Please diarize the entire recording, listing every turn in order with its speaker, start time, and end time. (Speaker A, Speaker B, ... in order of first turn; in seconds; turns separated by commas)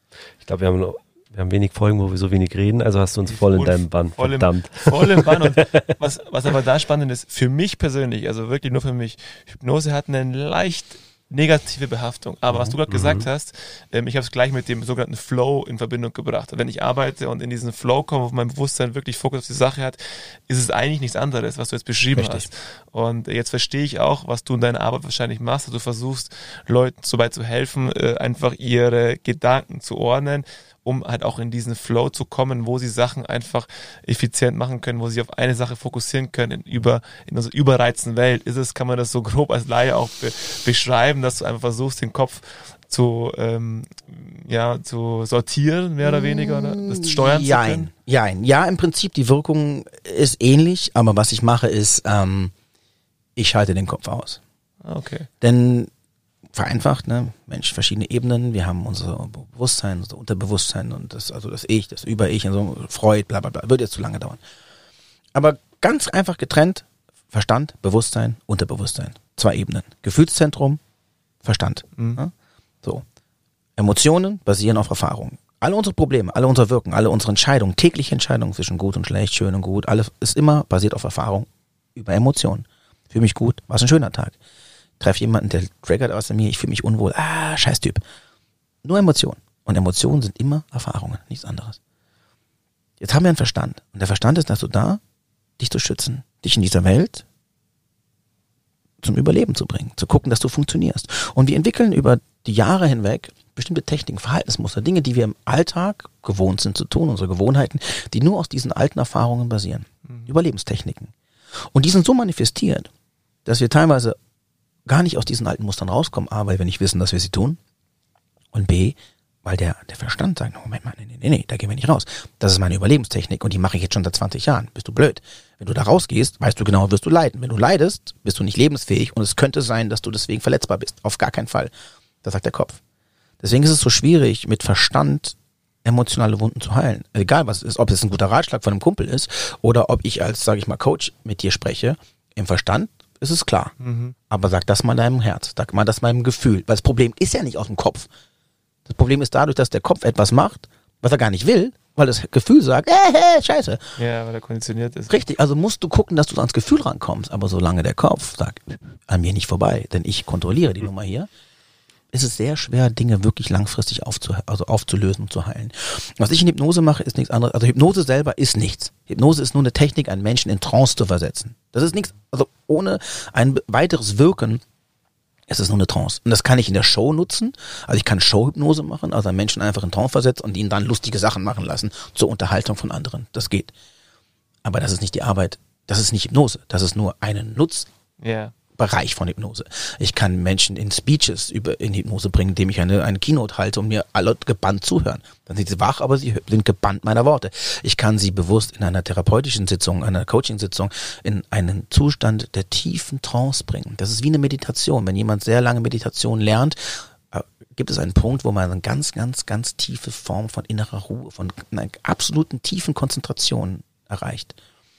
Speaker A: 0.4-5.9, Speaker B: 3.3-47.9, Speaker C: 12.5-12.8, Speaker A: 12.9-13.3, Speaker C: 22.1-22.5, Speaker C: 46.0-52.5, Speaker C: 53.4-54.4, Speaker B: 54.8-55.3, Speaker C: 55.4-55.9, Speaker C: 56.5-64.4, Speaker C: 65.3-70.8, Speaker C: 71.4-73.0, Speaker C: 73.8-84.3, Speaker C: 85.0-88.0, Speaker C: 88.8-91.8, Speaker C: 93.0-95.0, Speaker C: 95.6-97.2, Speaker C: 99.0-111.1, Speaker C: 111.7-112.9, Speaker C: 113.4-114.2, Speaker C: 114.8-117.6, Speaker C: 118.5-132.8, Speaker C: 133.4-143.7, Speaker B: 143.8-144.2, Speaker C: 144.3-148.1, Speaker C: 148.8-153.8, Speaker B: 154.0-155.2, Speaker C: 155.1-161.3, Speaker C: 162.1-174.6, Speaker C: 175.5-183.7, Speaker C: 184.6-187.9, Speaker B: 188.2-188.5, Speaker C: 188.8-214.6